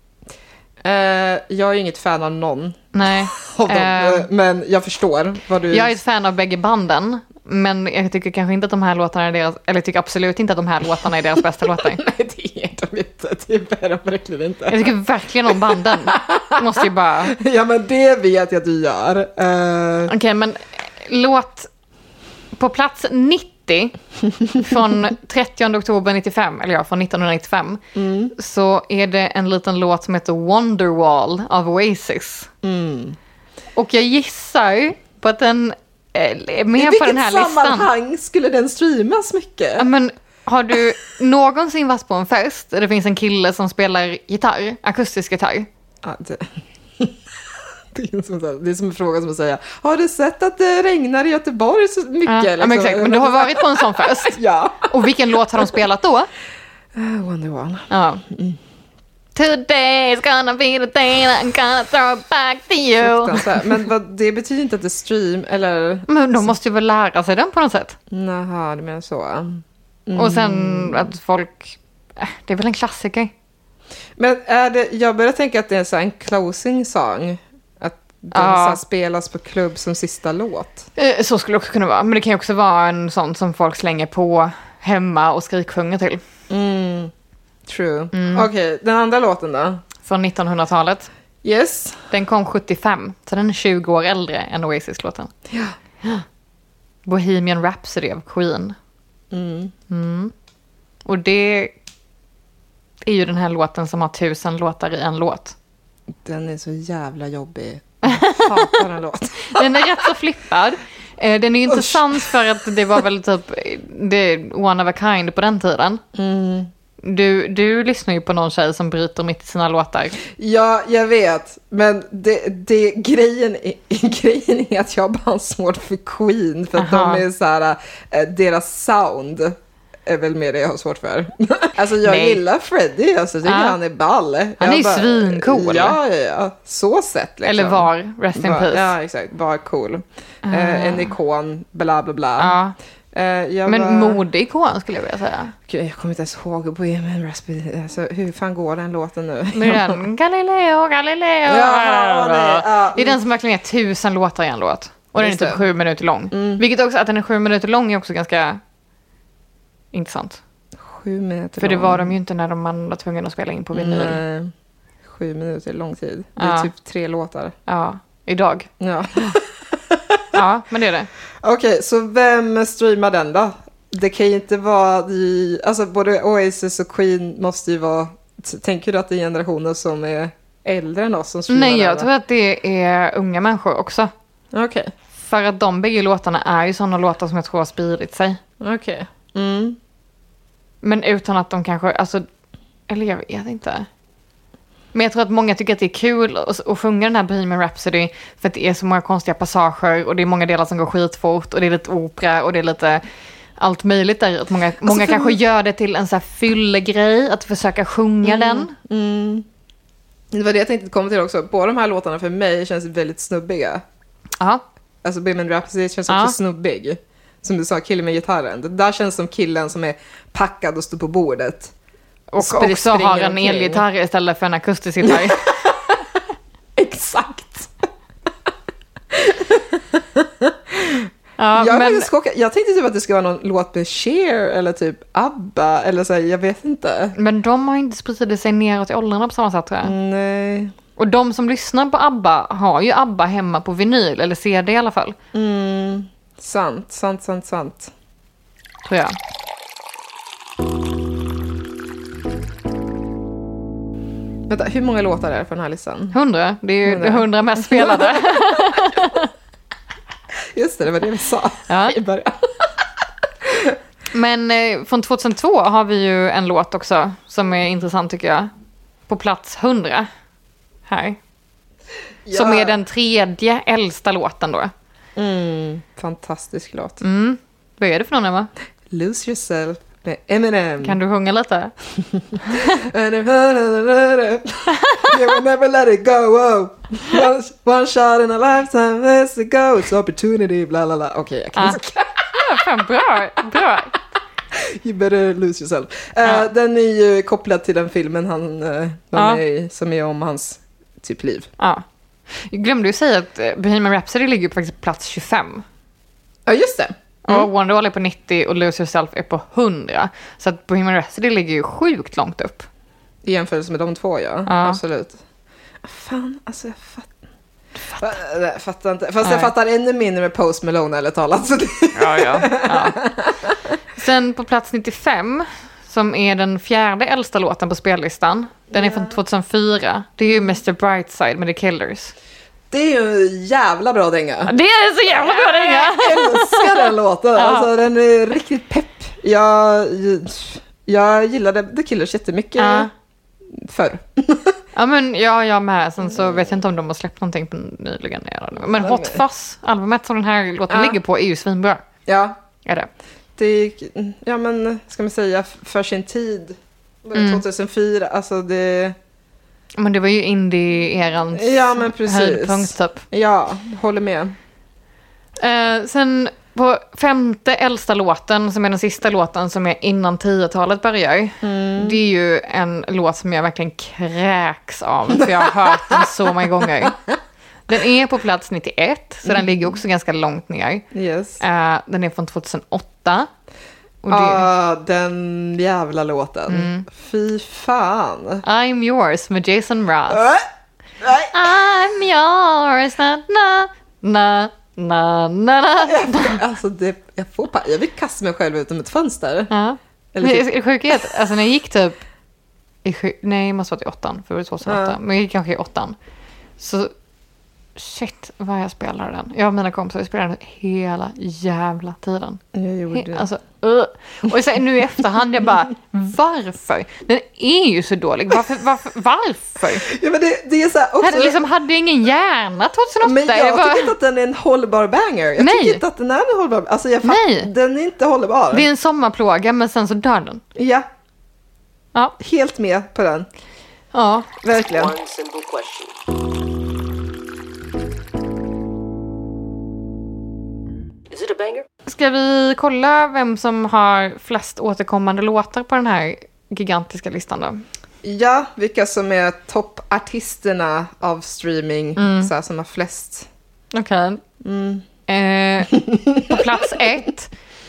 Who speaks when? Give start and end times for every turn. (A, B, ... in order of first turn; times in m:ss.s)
0:00.8-0:05.9 A
0:02.9-0:04.3 B
0:05.7-0:12.0 B
0:11.7-0:14.9 A
0:14.7-0:17.4 B
0:15.5-0:20.1 A
0:20.1-0:21.7 B
0:22.6-0:24.0 B
0:24.6-0:27.8 B
0:27.9-0:28.3 A
0:28.3-0:32.5 B
0:32.6-0:33.2 A
0:33.8-0:37.9 B
0:36.8-0:39.9 A
0:39.8-0:45.7 B
0:46.0-0:47.2 A
0:47.9-0:55.0 A
0:52.2-0:56.3 B
0:56.9-0:58.6 A
0:57.9-0:58.2 B
0:59.3-1:03.8 B
1:03.0-1:06.5 A
1:06.1-1:08.0 B
1:08.1-1:11.1 A
1:10.1-1:13.3 B
1:14.2-1:20.9 A
1:18.3-1:18.8 B
1:21.0-1:26.2 B
1:26.5-1:27.1 A
1:27.6-1:29.8 A
1:28.1-1:28.5 B
1:30.0-1:31.1 B
1:31.4-1:32.1 A
1:32.1-1:35.3 B
1:35.5-1:35.7 A
1:37.0-1:38.8 B
1:39.3-1:39.7 A
1:39.9-1:40.3 B
1:41.0-1:41.7 B
1:43.0-1:45.5 B
1:46.2-1:50.0 A
1:48.0-1:48.8 B
1:49.4-1:56.0 B
1:51.7-1:52.4 A
1:56.1-1:56.7 A
1:57.0-2:00.2 B
2:00.3-2:22.5 A
2:06.8-2:07.2 B
2:12.0-2:12.4 B
2:13.4-2:13.8 B
2:14.6-2:16.0 B
2:17.4-2:18.9 B
2:20.4-2:21.1 B
2:22.4-2:22.7 B
2:23.1-2:24.2 A
2:23.6-2:25.5 B
2:25.7-2:30.0 A
2:29.5-2:38.6 B
2:31.4-2:33.2 A
2:35.2-2:35.6 A
2:36.3-2:36.6 A
2:39.9-2:40.4 B
2:40.8-2:42.1 A
2:41.6-2:44.2 B
2:43.7-2:44.5 A
2:45.0-2:47.5 A
2:46.4-2:46.7 B
2:47.7-2:48.7 B
2:48.8-2:50.4 A
2:50.3-2:51.1 B
2:51.4-3:02.1 A
3:01.5-3:04.1 B
3:04.5-3:04.9 A
3:05.2-3:08.4 B
3:08.6-3:09.8 A
3:10.8-3:12.2 B
3:12.9-3:13.9 B
3:14.9-3:23.0 B
3:23.6-3:28.7 B
3:24.8-3:25.4 A
3:28.2-3:29.4 A
3:30.3-3:33.8 A
3:35.0-3:41.7 A
3:36.1-3:36.3 B
3:42.3-3:45.4 B
3:42.4-3:43.8 A
3:45.0-3:46.0 A
3:46.8-3:47.7 A
3:49.1-3:57.1 A
3:51.4-3:52.1 B
3:57.2-3:59.9 B
3:59.8-4:00.7 A
4:01.0-4:05.2 B
4:05.3-4:07.9 A
4:08.8-4:09.2 B
4:14.5-4:16.2 A
4:16.1-4:19.3 B
4:16.8-4:19.1 A
4:20.5-4:22.8 A
4:21.7-4:22.0 B
4:23.4-4:23.8 A
4:24.1-4:28.5 B
4:29.1-4:30.1 B
4:30.9-4:31.2 B
4:32.2-4:32.8 A
4:32.3-4:34.7 B
4:35.2-4:37.0 A
4:37.0-4:38.5 B
4:38.9-4:41.0 A
4:40.8-4:41.7 B
4:42.4-4:42.7 B
4:42.5-4:52.4 A
4:44.7-4:45.2 B
4:52.3-4:54.0 B
4:54.5-5:01.5 A
4:56.2-4:56.5 B
4:59.1-4:59.4 B
5:01.6-5:05.6 B
5:06.4-5:07.5 A
5:07.3-5:12.7 B
5:13.2-5:15.2 A
5:14.4-5:14.8 B
5:15.8-5:17.1 A
5:18.0-5:23.7 A
5:19.2-5:19.5 B
5:21.9-5:23.0 B
5:23.9-5:32.1 B
5:28.7-5:29.1 A
5:32.7-5:34.5 A
5:34.4-5:37.7 B
5:35.1-5:42.9 A
5:42.6-5:42.9 B
5:43.5-5:44.6 A
5:44.7-5:51.8 B
5:46.0-5:46.6 A
5:48.7-5:49.2 A
5:50.7-5:51.0 A
5:52.0-5:52.4 A
5:52.6-5:52.9 B
5:53.4-5:59.0 A
5:57.1-5:57.4 B
5:59.8-6:03.0 B
6:01.3-6:04.4 A
6:05.4-6:17.0 B
6:11.4-6:12.0 A
6:15.2-6:16.1 A
6:17.7-6:20.8 B
6:19.2-6:19.8 A
6:20.9-6:21.4 A
6:21.4-6:23.3 B
6:24.0-6:24.5 B
6:24.1-6:28.4 A
6:26.5-6:26.8 B
6:28.4-6:30.2 B
6:30.1-6:30.4 A
6:31.0-6:31.3 A
6:31.3-6:36.4 B
6:35.8-6:39.5 A
6:39.5-6:42.0 B
6:40.1-6:41.1 A
6:42.8-6:46.0 B
6:44.6-6:45.0 A
6:46.6-6:46.9 B
6:47.8-6:59.9 B
6:52.5-6:53.3 A
6:59.8-7:01.4 A
7:01.0-7:03.9 B
7:03.0-7:08.7 A
7:05.4-7:05.8 B
7:07.0-7:07.5 B
7:08.5-7:10.4 B
7:10.5-7:10.9 A
7:12.2-7:13.3 A
7:13.9-7:14.3 B
7:14.4-7:14.9 A
7:14.6-7:15.9 C
7:21.1-7:21.6 C
7:21.8-7:27.6 B
7:28.0-7:33.3 A
7:32.0-7:32.3 B
7:33.7-7:34.2 B
7:34.4-7:34.8 A
7:35.1-7:37.3 B
7:35.7-7:36.5 A